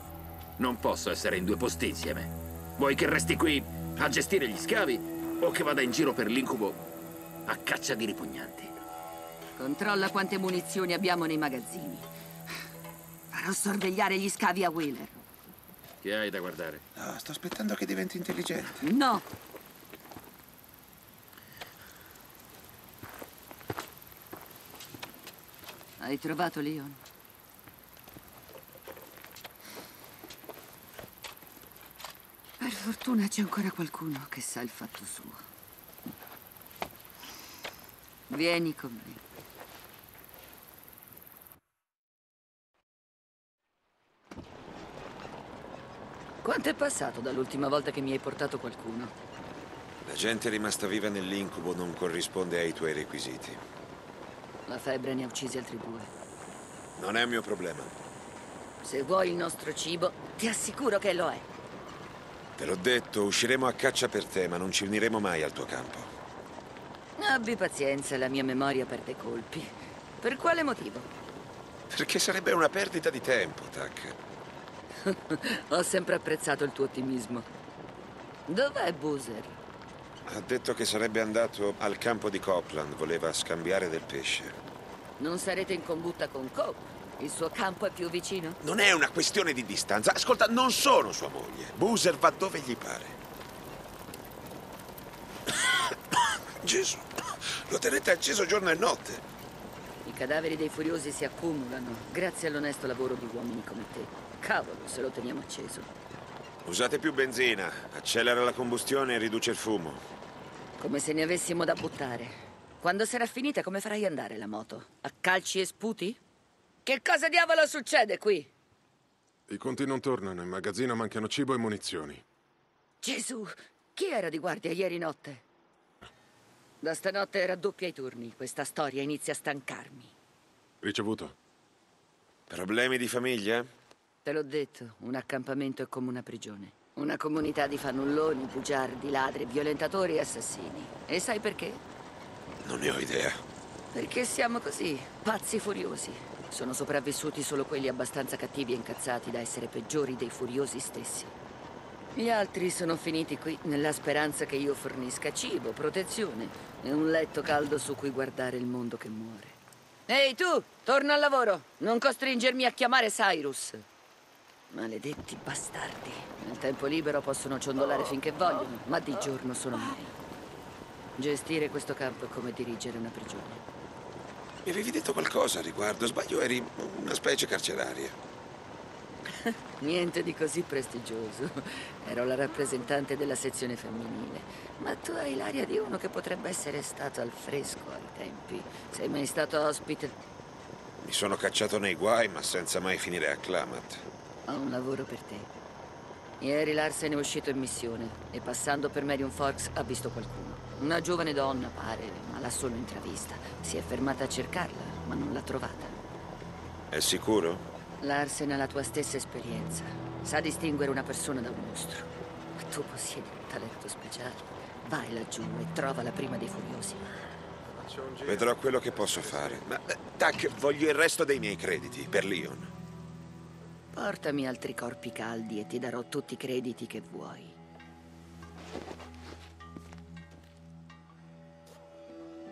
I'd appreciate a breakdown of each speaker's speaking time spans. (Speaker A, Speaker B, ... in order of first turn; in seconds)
Speaker A: 0.6-6.8, 7.5-8.7, 16.0-16.8
Speaker B: 9.6-12.1, 13.3-15.2, 18.8-19.2, 26.0-27.0, 32.6-35.4, 38.3-39.2, 46.4-49.1, 54.6-56.1, 58.8-61.5, 67.2-71.1, 75.0-77.5, 78.5-79.5, 85.2-88.6, 100.0-105.9, 110.8-116.2, 116.8-118.5, 123.0-125.4, 126.8-130.1, 134.2-141.8, 143.9-151.3, 152.1-163.8, 164.7-170.1, 171.2-173.6, 179.3-190.3, 194.5-195.5, 196.4-206.0, 208.0-217.1, 223.9-227.6
Speaker C: 16.9-18.9, 50.0-53.6, 57.0-57.9, 62.6-66.1, 71.9-74.2, 80.2-84.6, 88.6-93.2, 95.6-99.2, 106.6-110.0, 132.5-133.7, 142.6-143.4, 174.6-178.2, 191.0-194.0, 206.9-207.6, 218.2-222.7
Speaker D: 119.5-122.2, 130.8-131.3, 217.9-218.2